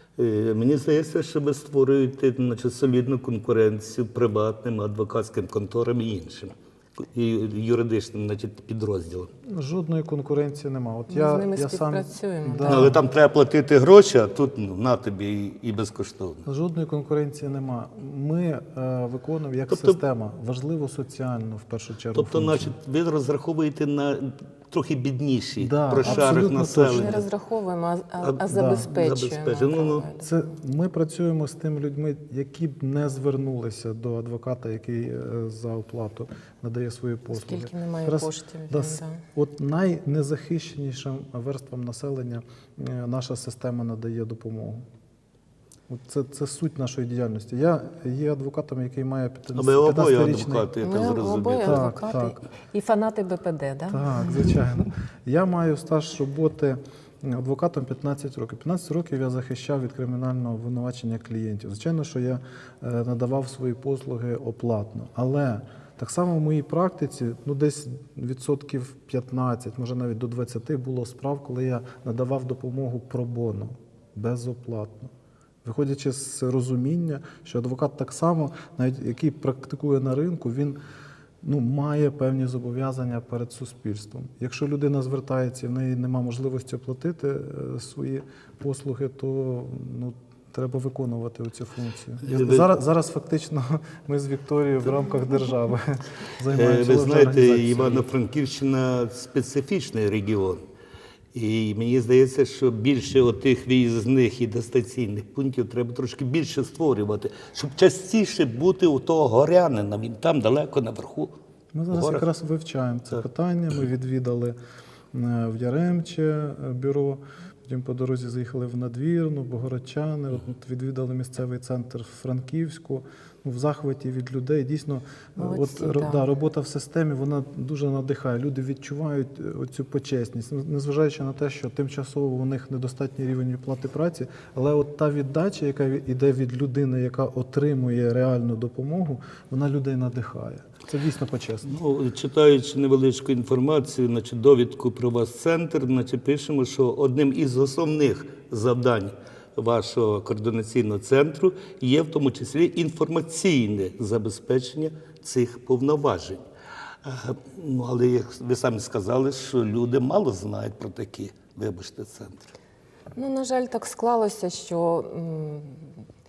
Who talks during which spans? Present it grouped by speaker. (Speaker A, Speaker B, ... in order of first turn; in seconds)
Speaker A: 0.2-9.3, 12.6-16.4, 19.7-20.0, 22.1-27.2, 28.2-30.1, 49.5-51.9, 92.2-92.7, 96.5-100.6, 101.3-111.3, 111.9-112.2, 141.7-156.4, 157.0-162.5
Speaker B: 9.5-13.0, 16.4-22.7, 25.6-27.2, 28.5-28.9, 30.2-44.8, 45.9-50.7, 51.6-52.3, 53.9-75.1, 75.6-80.8, 81.4-98.0, 111.7-114.5, 115.1-141.7
Speaker C: 11.1-13.0, 26.0-30.3, 37.3-39.2, 50.8-54.4, 125.4-126.2, 163.2-165.9